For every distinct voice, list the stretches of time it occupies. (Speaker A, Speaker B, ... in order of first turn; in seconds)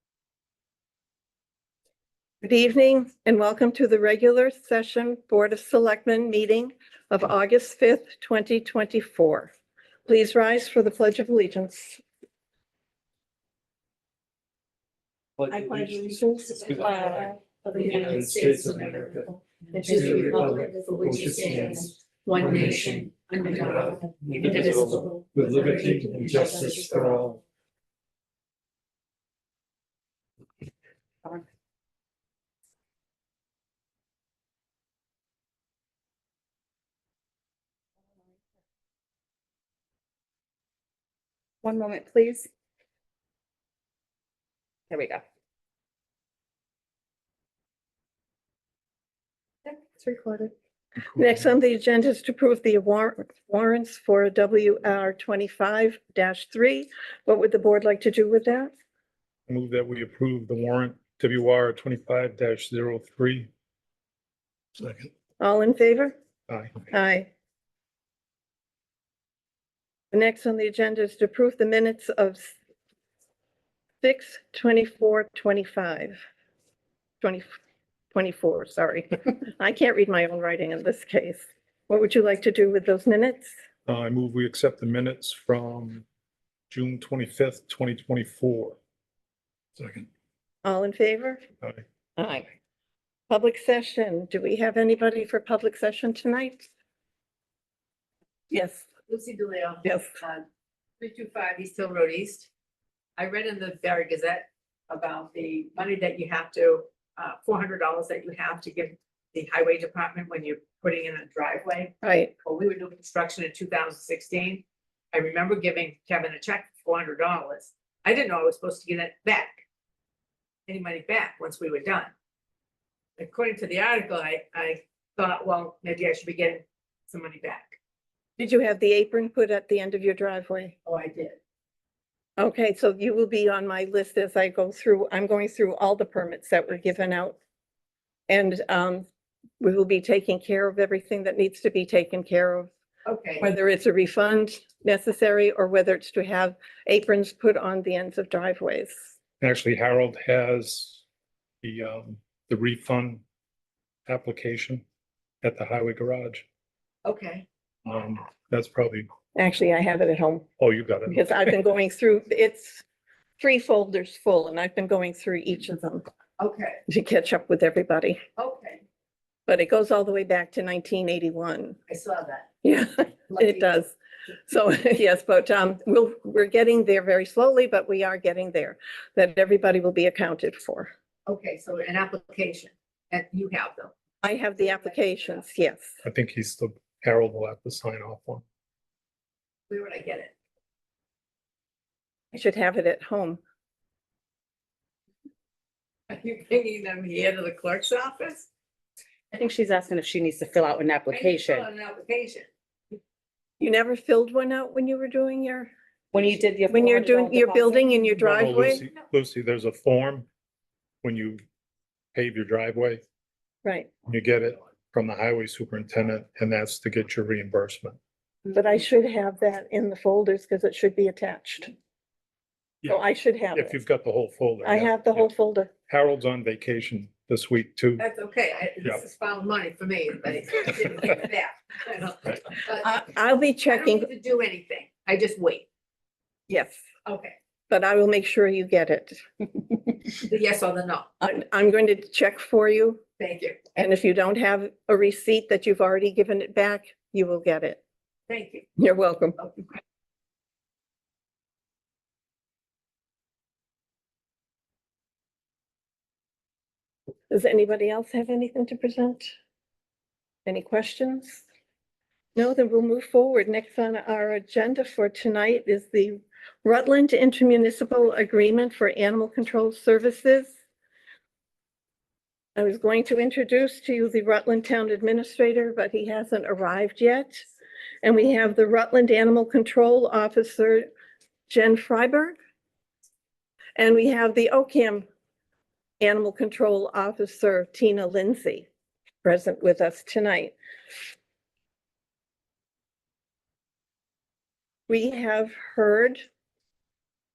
Speaker A: 2.4-9.5, 10.1-12.0, 15.5-18.1, 19.8-20.5, 49.9-50.5, 51.1-58.7, 65.4-66.2, 66.9-67.3, 70.1-72.6, 74.0-76.2, 77.2-77.5, 78.1-83.5, 90.6-91.4, 92.2-92.5, 93.3-96.7, 98.5-98.9, 99.8-100.1, 112.0-112.3, 128.4-130.8, 132.4-137.4, 138.3-139.1, 139.6-142.7, 143.4-149.1, 159.4-160.5, 161.1-162.8, 163.4-166.1, 166.9-168.2, 169.5-171.8, 172.6-173.9, 174.5-180.9, 184.2-186.0, 192.3-193.4, 203.6-205.7, 206.7-208.8, 213.6-213.9, 218.5-221.7, 222.9-223.8, 224.6-225.7, 232.7-234.1, 236.5-236.8, 237.7-239.2, 241.2-243.0, 243.8-247.8, 248.8-249.4, 257.3-259.3, 260.5-261.4, 262.4-270.5, 272.6-277.5, 278.0-280.9, 281.5-282.4, 283.8-285.1, 286.0-288.7, 289.2-290.6, 294.9-296.2
Speaker B: 15.4-27.4
Speaker C: 16.8-17.3, 41.6-42.5, 44.9-45.2, 199.3-201.7, 206.1-208.2
Speaker D: 17.7-27.2, 99.1-100.5, 101.0-102.5, 103.2-119.6, 120.7-122.1, 123.2-127.8, 130.9-131.4, 143.1-143.5, 157.1-157.5, 166.4-166.8, 168.4-168.8, 171.9-172.5, 173.3-173.7, 181.3-183.9, 184.6-185.4, 189.7-190.3, 196.1-198.5, 201.1-202.5, 228.0-232.9, 233.7-235.7, 237.1-237.3, 240.2-241.1, 243.2-243.7, 248.3-248.7
Speaker E: 59.5-63.5, 64.8-65.1, 66.5-66.8, 83.9-86.0, 86.7-88.8, 89.8-90.1, 149.4-151.0, 151.6-153.2, 154.1-154.8, 155.4-156.4, 157.9-159.1, 160.6-161.3, 186.0-188.4, 208.2-210.3, 211.0-211.4, 212.1-213.0, 214.1-218.0, 223.5-225.3, 225.9-228.1